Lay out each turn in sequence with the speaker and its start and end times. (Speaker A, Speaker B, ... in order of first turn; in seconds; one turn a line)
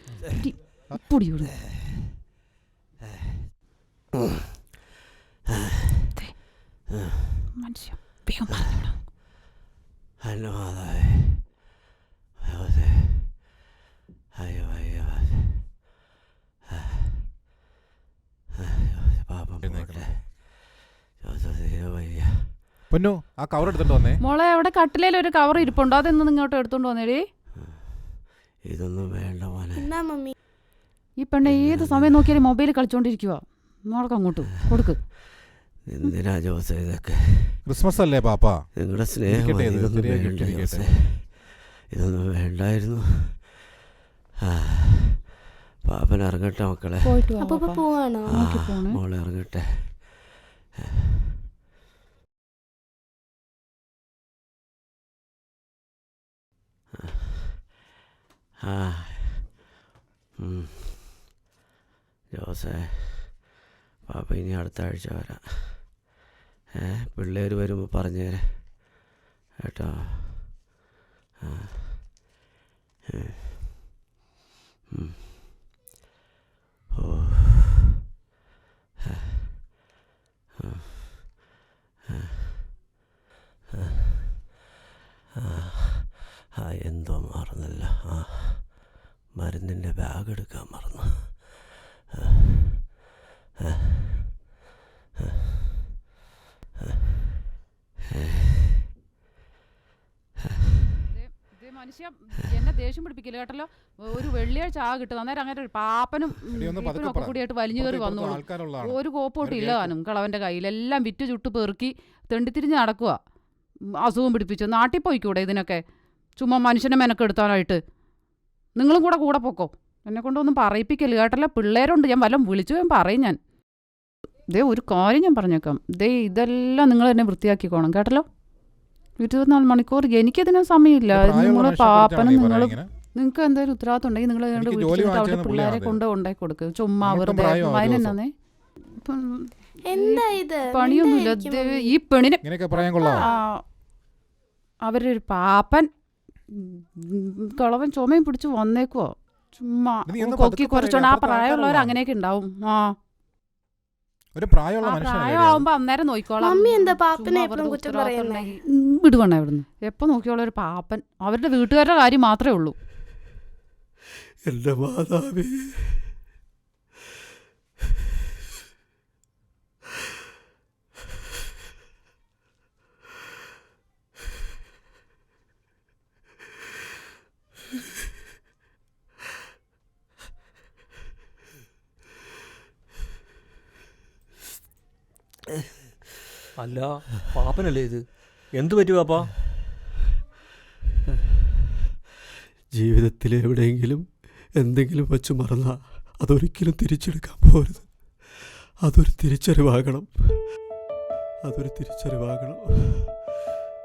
Speaker A: 0.3-1.6
Speaker B: 7.2-7.5
Speaker A: 7.6-8.8
Speaker B: 10.2-11.6
Speaker B: 12.5-13.6
Speaker B: 14.3-15.9
Speaker B: 18.6-22.7
Speaker C: 19.6-20.0
Speaker C: 22.9-24.2
Speaker A: 24.2-27.2
Speaker B: 27.6-29.9
Speaker D: 29.8-30.4
Speaker A: 31.2-35.2
Speaker B: 31.4-32.3
Speaker B: 35.9-37.6
Speaker C: 37.7-38.6
Speaker B: 38.8-43.6
Speaker C: 39.2-40.9
Speaker B: 44.6-45.3
Speaker B: 45.8-47.3
Speaker A: 47.0-49.0
Speaker D: 47.4-48.3
Speaker B: 48.3-50.5
Speaker B: 57.0-57.8
Speaker B: 58.7-59.5
Speaker B: 60.4-61.3
Speaker B: 62.3-66.1
Speaker B: 66.8-69.0
Speaker B: 69.6-70.8
Speaker B: 71.4-72.3
Speaker B: 73.1-73.9
Speaker B: 75.0-75.4
Speaker B: 77.0-77.9
Speaker B: 80.6-81.5
Speaker B: 82.2-82.9
Speaker B: 85.4-91.6
Speaker B: 92.4-92.9
Speaker B: 93.9-94.4
Speaker A: 101.1-113.2
Speaker C: 106.5-109.9
Speaker A: 114.0-115.8
Speaker A: 116.4-117.8
Speaker A: 118.8-123.4
Speaker A: 124.5-128.3
Speaker A: 129.2-138.3
Speaker C: 131.1-132.9
Speaker C: 134.6-136.0
Speaker C: 137.0-138.2
Speaker A: 138.9-142.4
Speaker D: 139.9-141.8
Speaker C: 142.4-143.3
Speaker D: 143.1-143.4
Speaker A: 143.1-143.6
Speaker A: 144.8-145.9
Speaker A: 146.5-152.9
Speaker C: 150.1-152.0
Speaker C: 154.3-155.7
Speaker A: 154.8-162.8
Speaker D: 156.4-158.5
Speaker E: 164.4-166.2
Speaker F: 186.6-189.3
Speaker E: 192.7-200.6
Speaker E: 201.4-203.4